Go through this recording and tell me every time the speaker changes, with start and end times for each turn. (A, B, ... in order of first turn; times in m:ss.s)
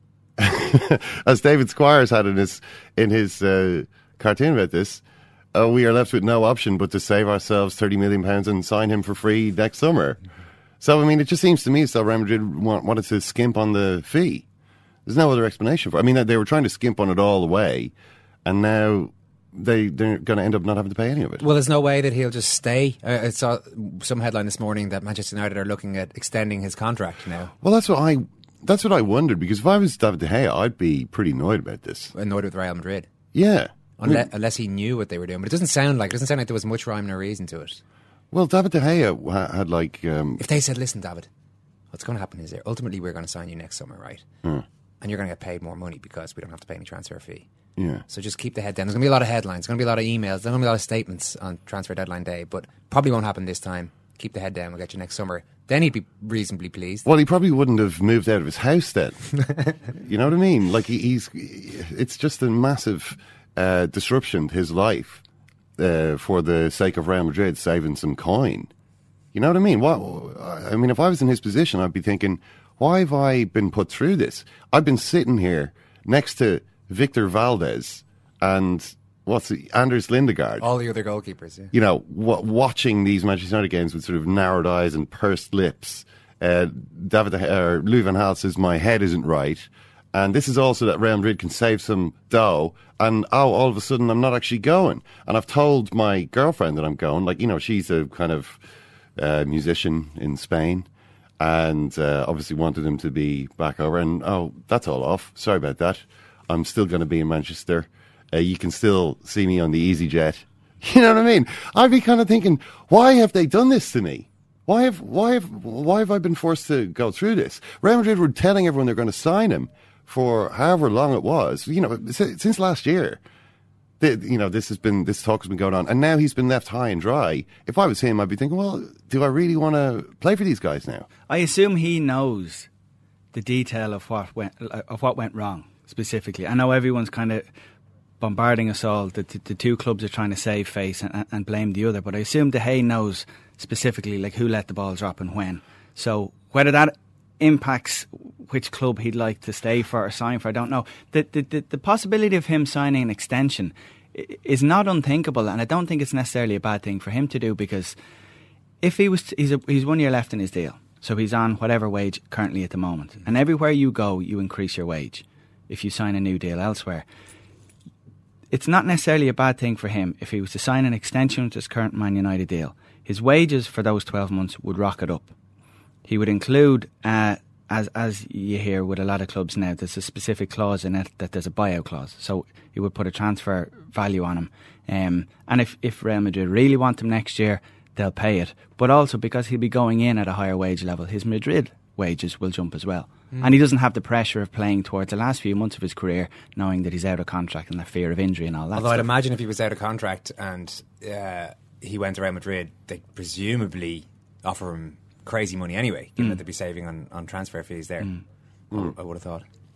0:00.4-0:05.0 A
0:05.5-0:10.2 A
0:10.8-0:14.4 A
0:15.1-0:17.9 A
0:18.4-0:21.4 A
0:21.4-0:27.5 B
0:27.6-0:32.1 A
0:32.2-0:33.1 B
0:33.3-0:34.3 A
0:34.0-0:37.8 B
0:38.3-0:40.4 A
0:40.4-0:41.3 B
0:41.9-0:44.2 B
0:45.0-0:47.5 B
0:47.8-0:48.0 A
0:48.1-0:57.1 B
0:57.0-0:59.3 A
1:00.0-1:05.2 A
1:05.8-1:08.7 A
1:09.3-1:20.7 A
1:20.6-1:21.7 B
1:21.7-1:38.6 A
1:39.2-1:40.9 A
1:41.4-2:03.2 A
2:04.0-2:11.1 A
2:11.3-2:12.7 C
2:13.3-2:17.5 C
2:18.2-2:38.0 C
2:38.8-2:47.1 C
2:48.5-2:55.3 C
2:56.0-3:19.1 C
3:13.3-3:13.6 B
3:18.7-3:28.1 B
3:28.7-3:29.4 B